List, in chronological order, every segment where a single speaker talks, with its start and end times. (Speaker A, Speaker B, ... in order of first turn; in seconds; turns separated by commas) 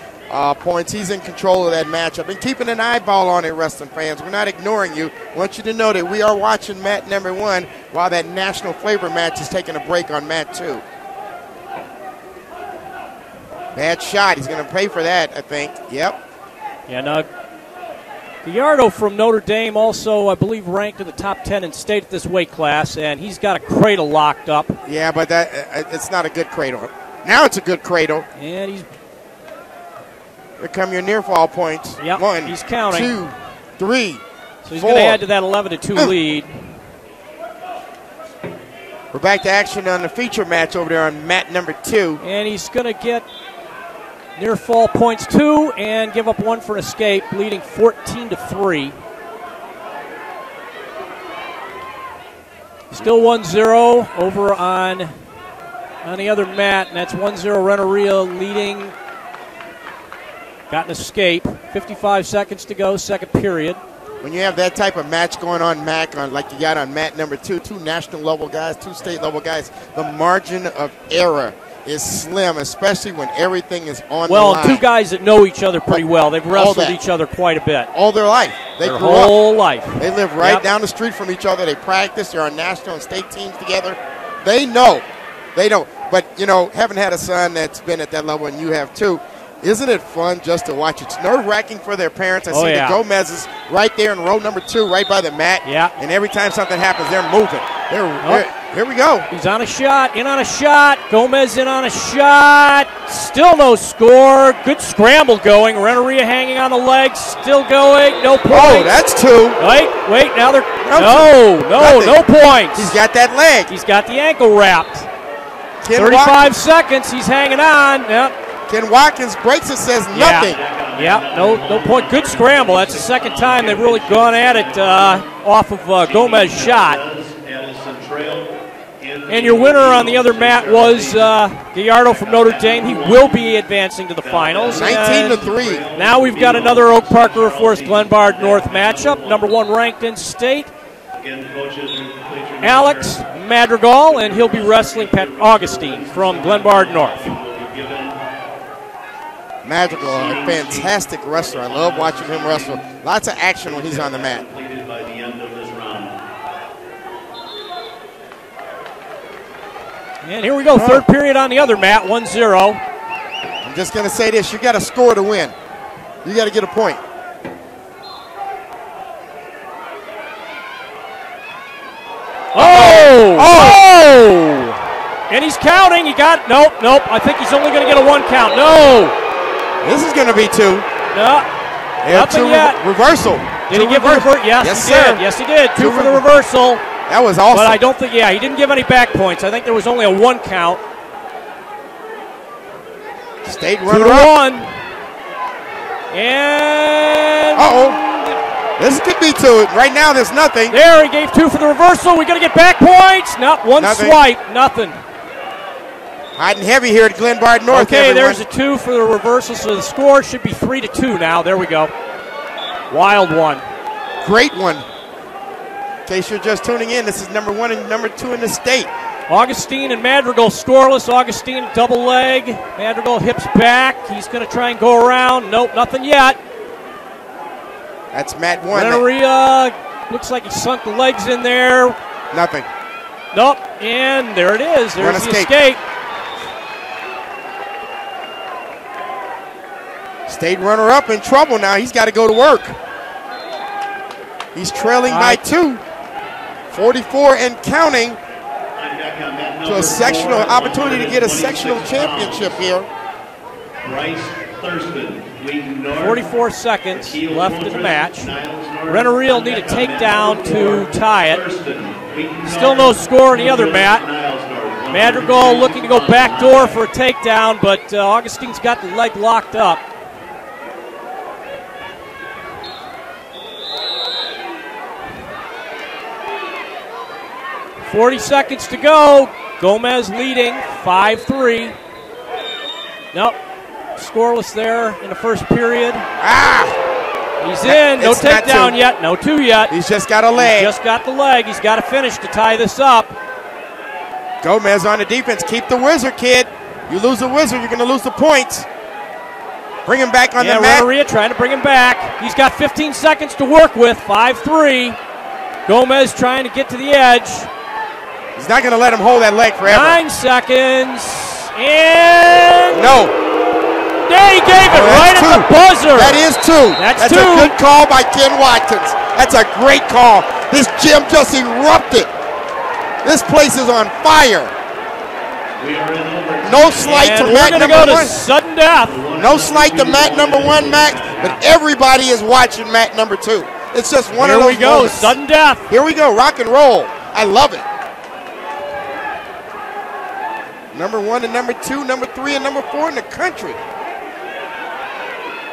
Speaker A: 0.3-10.8, Speaker A: 13.8-16.2, Speaker B: 16.9-17.3, Speaker B: 18.4-24.8, Speaker A: 24.9-28.3, Speaker B: 28.4-28.9, Speaker A: 30.6-34.2, Speaker B: 32.0-33.1, Speaker B: 34.6-36.7, Speaker A: 34.7-35.2, Speaker A: 39.1-42.2, Speaker B: 42.2-43.3, Speaker B: 44.4-49.0, Speaker B: 52.9-55.1, Speaker B: 56.0-58.9, Speaker B: 60.7-63.8, Speaker A: 64.2-74.8, Speaker B: 74.3-77.9, Speaker A: 75.9-77.0, Speaker A: 77.9-79.4, Speaker B: 78.8-80.7, Speaker A: 80.0-99.3, Speaker B: 92.5-93.0, Speaker B: 95.6-96.0, Speaker B: 98.2-98.5, Speaker B: 99.3-109.0, Speaker A: 108.5-109.6, Speaker B: 109.6-113.0, Speaker A: 110.8-113.7, Speaker B: 113.7-115.1, Speaker A: 115.8-116.5, Speaker B: 115.9-118.3, Speaker A: 118.7-120.6, Speaker B: 120.1-127.0, Speaker C: 120.2-125.3, Speaker C: 126.0-131.4, Speaker B: 129.3-140.7, Speaker C: 132.1-133.6, Speaker C: 134.2-139.7, Speaker A: 134.7-135.8, Speaker C: 141.2-143.2, Speaker B: 142.6-147.3, Speaker C: 144.0-148.2, Speaker A: 149.6-154.4, Speaker C: 149.9-153.0, Speaker C: 153.6-156.2, Speaker B: 160.2-162.8, Speaker A: 160.7-161.1, Speaker A: 163.6-165.6, Speaker A: 166.2-167.0, Speaker B: 172.5-174.8, Speaker A: 172.6-173.9, Speaker B: 175.3-179.2, Speaker A: 179.8-180.9, Speaker B: 181.1-181.5, Speaker A: 182.0-185.2, Speaker B: 182.1-182.8, Speaker B: 183.7-186.8, Speaker A: 185.8-186.3, Speaker A: 187.1-187.8, Speaker B: 187.5-190.8, Speaker A: 193.4-194.3, Speaker B: 193.9-194.8, Speaker B: 196.1-198.4, Speaker A: 197.6-198.0, Speaker A: 198.8-200.8, Speaker B: 200.7-205.0, Speaker A: 203.8-204.2, Speaker A: 206.4-208.4, Speaker B: 207.7-211.9, Speaker B: 212.9-213.7, Speaker A: 214.2-214.8, Speaker A: 216.1-218.9, Speaker B: 219.3-226.4, Speaker A: 228.1-229.1, Speaker B: 228.7-232.0, Speaker A: 232.3-232.7, Speaker B: 233.3-235.8, Speaker A: 235.0-235.5, Speaker A: 240.3-242.8, Speaker A: 244.5-245.8, Speaker B: 245.1-245.4, Speaker A: 246.7-248.2, Speaker C: 248.8-252.7, Speaker A: 249.7-252.9, Speaker C: 253.8-256.3, Speaker B: 255.9-258.3, Speaker C: 256.9-266.9, Speaker B: 258.9-261.4, Speaker B: 262.4-264.1, Speaker B: 264.9-269.8, Speaker B: 277.8-281.8, Speaker B: 284.0-286.1, Speaker A: 286.2-286.8, Speaker B: 287.4-289.7, Speaker A: 287.6-288.8, Speaker A: 289.7-290.7, Speaker B: 290.4-293.1, Speaker A: 294.4-298.7, Speaker A: 299.9-300.9, Speaker B: 300.4-305.0, Speaker B: 305.7-307.5, Speaker A: 308.4-310.0, Speaker B: 309.6-313.0, Speaker A: 312.7-313.1, Speaker B: 314.0-317.6, Speaker A: 314.6-322.1, Speaker A: 323.0-324.5, Speaker C: 325.6-328.1, Speaker A: 326.4-328.2, Speaker B: 326.8-329.0, Speaker C: 328.8-331.4, Speaker A: 329.2-335.2, Speaker B: 334.1-335.7, Speaker A: 335.7-337.6, Speaker A: 340.7-343.6